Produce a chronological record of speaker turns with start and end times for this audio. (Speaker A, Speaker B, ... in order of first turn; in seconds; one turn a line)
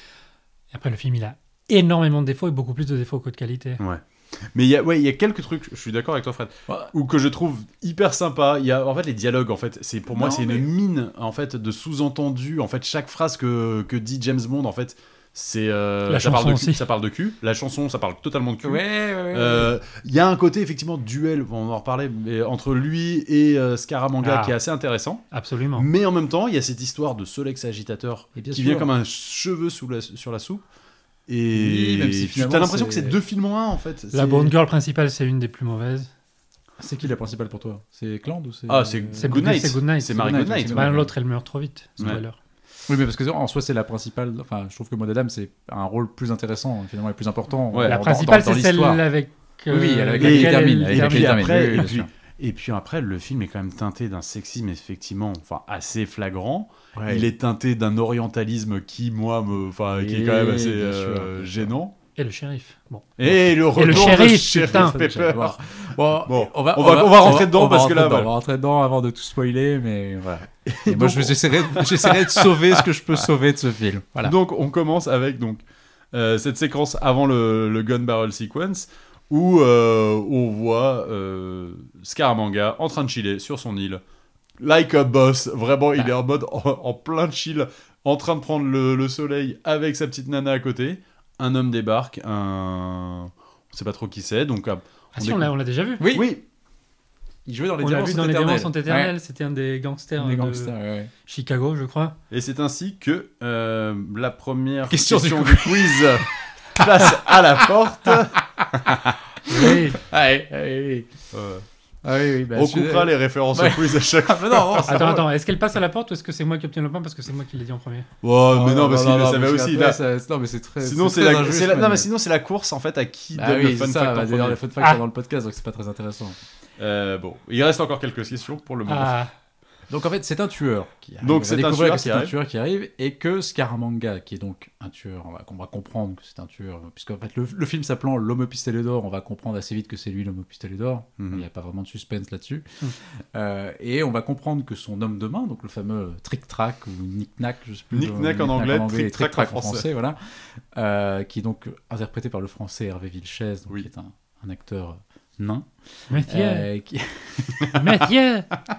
Speaker A: 0.7-3.8
Speaker B: 3.8-30.6
Speaker C: 6.7-6.9
Speaker C: 10.1-10.7
Speaker A: 16.1-16.8
Speaker C: 18.6-19.7
Speaker A: 24.2-24.6
Speaker A: 25.3-25.9
Speaker C: 28.4-28.9
Speaker B: 31.3-34.5
Speaker C: 31.5-33.2
Speaker A: 34.1-36.1
Speaker C: 36.8-39.6
Speaker B: 38.7-40.9
Speaker A: 39.2-42.4
Speaker C: 40.1-41.1
Speaker C: 42.9-49.0
Speaker B: 47.7-48.0
Speaker A: 47.9-51.5
Speaker C: 49.7-52.1
Speaker B: 50.2-61.9
Speaker C: 56.9-57.3
Speaker C: 59.9-61.7
Speaker A: 62.1-63.0
Speaker B: 63.2-65.6
Speaker C: 63.2-74.3
Speaker A: 63.7-65.0
Speaker B: 66.2-68.3
Speaker B: 70.7-72.8
Speaker B: 74.2-84.0
Speaker B: 84.6-95.5
Speaker A: 95.1-96.0
Speaker C: 96.0-96.3
Speaker B: 96.1-96.4
Speaker C: 97.5-99.1
Speaker A: 97.8-100.7
Speaker C: 100.2-101.1
Speaker A: 101.2-102.2
Speaker B: 102.3-109.2
Speaker C: 104.9-106.2
Speaker C: 106.8-111.1
Speaker A: 109.5-110.0
Speaker B: 111.3-111.6
Speaker C: 112.0-115.2
Speaker B: 112.5-115.2
Speaker A: 114.8-118.1
Speaker B: 118.2-120.0
Speaker C: 118.5-122.1
Speaker B: 120.8-124.6
Speaker C: 123.3-126.4
Speaker B: 126.8-129.2
Speaker A: 128.9-129.3
Speaker C: 129.9-142.7
Speaker B: 131.2-132.3
Speaker B: 141.2-141.4
Speaker C: 143.3-155.7
Speaker B: 147.9-149.9
Speaker A: 156.1-156.7
Speaker C: 156.3-157.8
Speaker A: 157.7-158.5